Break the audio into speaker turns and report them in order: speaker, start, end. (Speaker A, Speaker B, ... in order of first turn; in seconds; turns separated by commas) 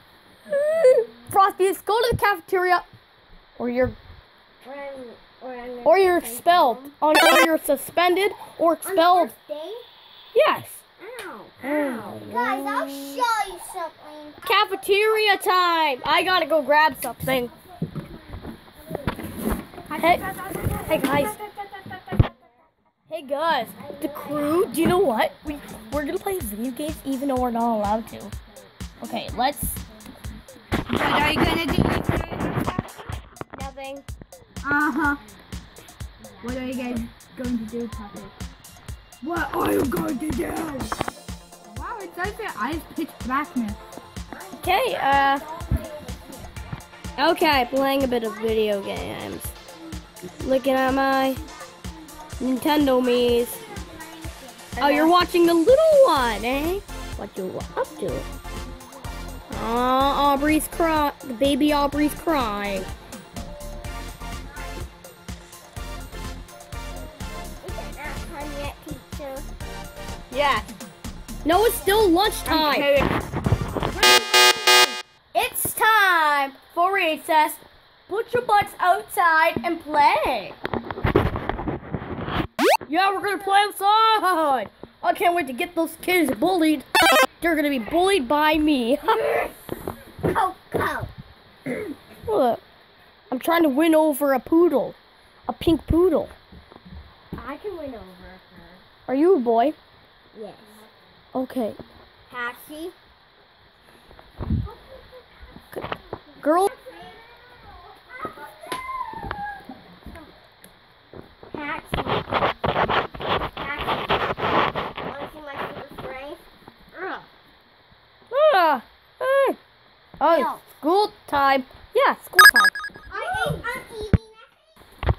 Speaker A: 0.5-2.9, Speaker A: 3.6-4.0, Speaker B: 4.6-6.9, Speaker A: 5.8-9.3, Speaker B: 8.8-9.8, Speaker A: 10.3-10.8, Speaker B: 11.0-14.5, Speaker A: 11.6-13.3, Speaker A: 14.4-17.5, Speaker C: 19.9-22.1, Speaker A: 20.0-20.3, Speaker A: 20.9-21.4, Speaker A: 23.1-28.3, Speaker B: 23.8-26.0, Speaker A: 29.0-29.8, Speaker B: 29.0-30.2, Speaker C: 30.9-33.0, Speaker A: 33.5-34.1, Speaker C: 34.6-35.2, Speaker B: 36.2-37.0, Speaker C: 36.4-38.4, Speaker C: 39.2-41.0, Speaker C: 41.7-43.9, Speaker B: 44.3-46.5, Speaker A: 44.6-45.5, Speaker A: 47.2-49.5, Speaker A: 50.4-51.4, Speaker A: 52.4-53.7, Speaker B: 53.7-54.0, Speaker C: 54.6-55.1, Speaker A: 54.8-58.3, Speaker A: 59.5-62.9, Speaker B: 67.6-69.5, Speaker A: 70.3-70.7, Speaker A: 71.4-73.0, Speaker C: 72.5-73.1, Speaker C: 73.9-75.0, Speaker A: 75.3-80.6, Speaker A: 82.9-86.9, Speaker A: 87.4-89.2, Speaker B: 89.1-89.5, Speaker B: 90.2-91.1, Speaker A: 92.3-92.6, Speaker A: 93.3-95.0, Speaker A: 95.5-96.3, Speaker B: 97.3-98.8, Speaker A: 99.1-99.8, Speaker B: 100.3-100.8, Speaker A: 101.3-101.8, Speaker B: 102.3-103.0, Speaker B: 104.7-105.0, Speaker A: 105.7-106.7, Speaker B: 106.1-109.4, Speaker B: 111.5-112.3, Speaker B: 113.6-114.2, Speaker B: 115.0-117.3, Speaker A: 118.3-119.6, Speaker A: 120.2-123.5, Speaker B: 120.3-120.6, Speaker B: 123.1-124.6